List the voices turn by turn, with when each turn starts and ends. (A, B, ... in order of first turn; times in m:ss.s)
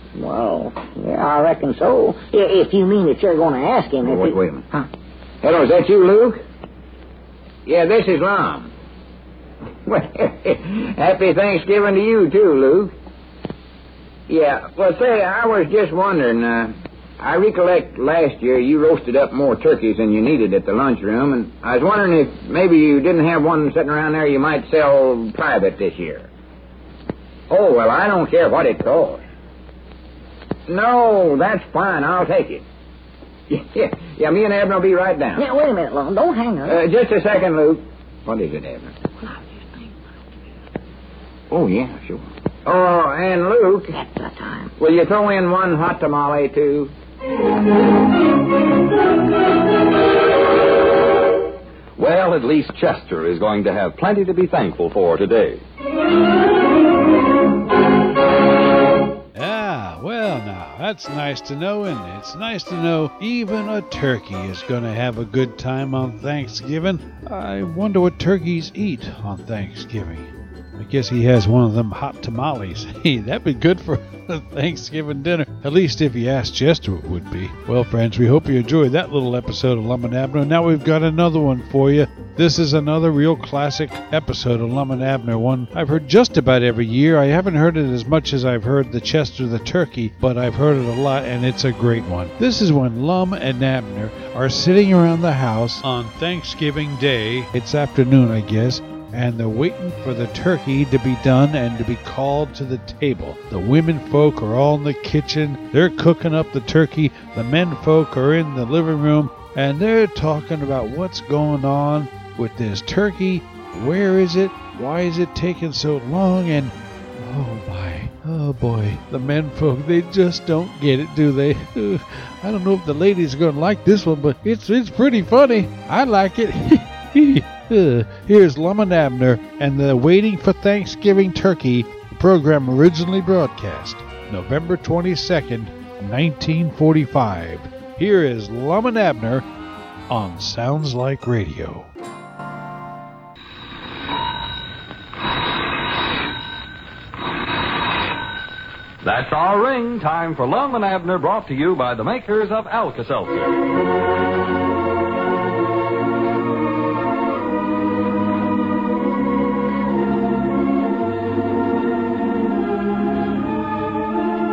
0:00.2-0:04.9 A
0:04.0-0:04.6 B
0:05.4-0:06.4 B
0:07.6-0:08.7 B
0:09.8-0:12.9 B
0:14.3-0:26.3 B
0:27.5-0:29.2 B
0:30.7-0:32.6 B
0:33.5-0:35.5 B
0:35.4-0:36.8 A
0:36.6-0:39.0 B
0:41.5-0:43.9 B
0:43.9-0:44.7 A
0:44.8-0:46.9 B
0:52.0-0:55.6 C
0:59.3-2:19.4 D
2:20.1-2:21.9 D
2:29.0-2:33.6 C